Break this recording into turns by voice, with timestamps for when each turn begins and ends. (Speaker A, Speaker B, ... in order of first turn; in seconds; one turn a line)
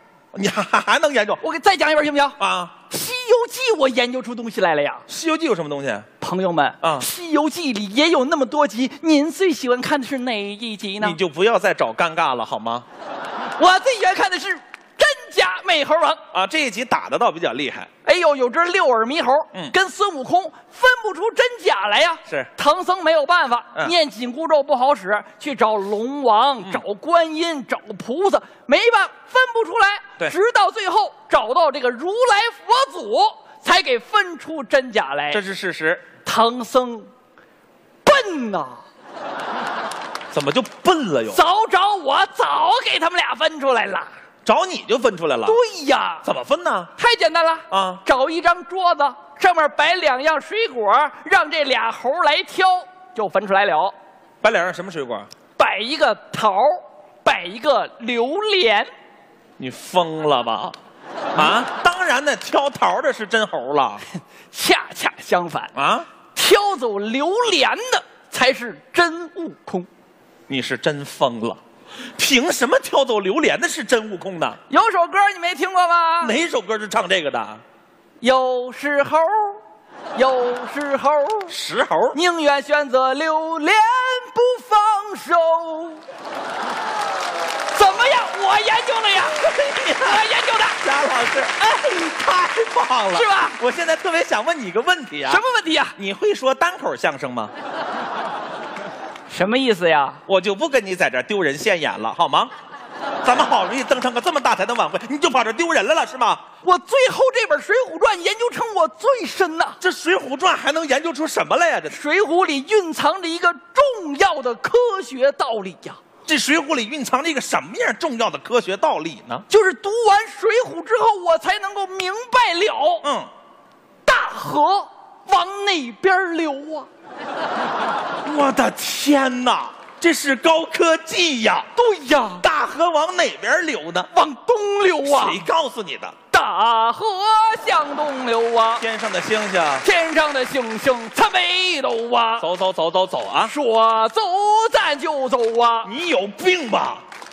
Speaker A: 0.3-1.4
Speaker B: 1.4-2.4
Speaker A: 2.4-2.7
Speaker B: 2.9-5.0
Speaker A: 5.1-6.1
Speaker B: 6.2-11.2
Speaker A: 11.0-12.8
Speaker B: 13.6-16.2
Speaker A: 16.3-17.9
Speaker B: 18.0-35.4
Speaker A: 35.3-36.0
Speaker B: 36.2-37.1
Speaker B: 38.0-38.8
Speaker A: 40.3-41.4
Speaker B: 41.3-44.1
Speaker A: 44.4-45.6
Speaker B: 45.5-46.2
Speaker A: 46.2-46.9
Speaker B: 47.0-53.9
Speaker A: 47.7-48.0
Speaker A: 54.4-55.3
Speaker B: 55.6-58.9
Speaker A: 59.6-60.8
Speaker A: 61.4-64.0
Speaker B: 64.5-65.7
Speaker A: 65.7-66.1
Speaker B: 66.3-69.9
Speaker A: 70.5-71.6
Speaker A: 72.2-74.6
Speaker B: 74.7-76.3
Speaker A: 76.2-77.6
Speaker B: 78.2-79.6
Speaker B: 80.1-81.5
Speaker A: 81.5-82.2
Speaker B: 82.1-86.0
Speaker B: 87.7-90.8
Speaker A: 89.3-90.2
Speaker A: 90.8-95.4
Speaker B: 93.1-93.6
Speaker B: 95.2-95.9
Speaker A: 96.0-97.5
Speaker B: 99.3-100.2
Speaker A: 100.3-102.5
Speaker A: 103.2-106.4
Speaker B: 106.6-109.8
Speaker A: 109.8-112.0
Speaker B: 111.9-116.0
Speaker A: 116.2-119.4
Speaker B: 119.5-123.0
Speaker A: 123.0-123.3
Speaker B: 124.0-126.9
Speaker A: 128.2-131.7
Speaker B: 131.7-132.4
Speaker A: 132.4-134.1
Speaker B: 134.1-135.4
Speaker A: 135.0-136.1
Speaker B: 136.3-138.8
Speaker A: 138.8-139.8
Speaker B: 139.8-142.5
Speaker A: 142.4-143.5
Speaker B: 143.4-145.9
Speaker A: 145.8-147.0